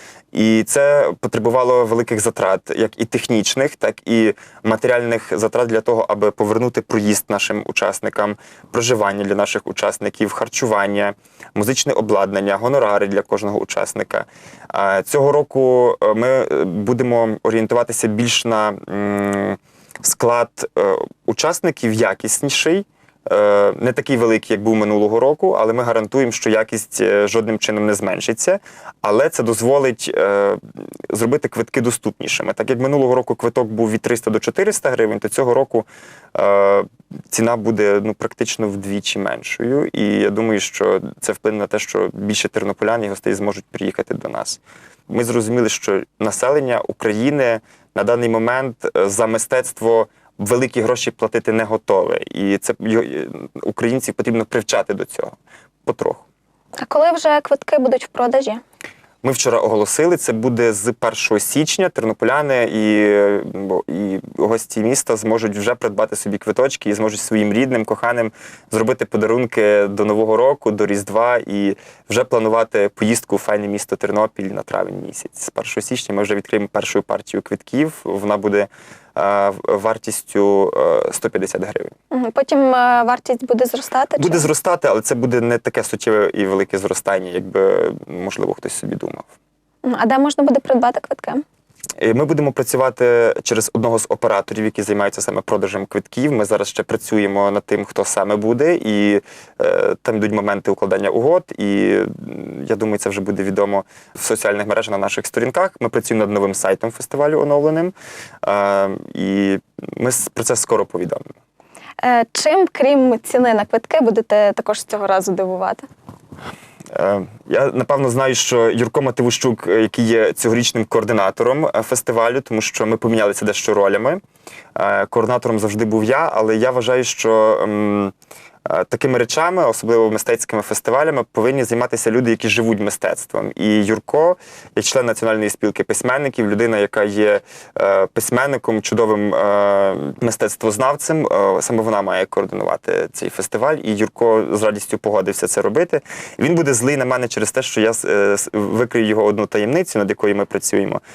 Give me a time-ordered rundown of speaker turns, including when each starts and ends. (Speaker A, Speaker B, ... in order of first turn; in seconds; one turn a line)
Speaker A: 0.3-55.3
Speaker A: 55.9-56.2
Speaker B: 56.8-58.6
Speaker A: 59.2-81.9
Speaker B: 82.1-84.5
Speaker A: 84.2-89.3
Speaker B: 89.8-91.4
Speaker A: 92.0-111.2
Speaker B: 112.0-115.8
Speaker A: 116.9-124.2
Speaker A: 124.8-128.1
Speaker A: 128.7-151.0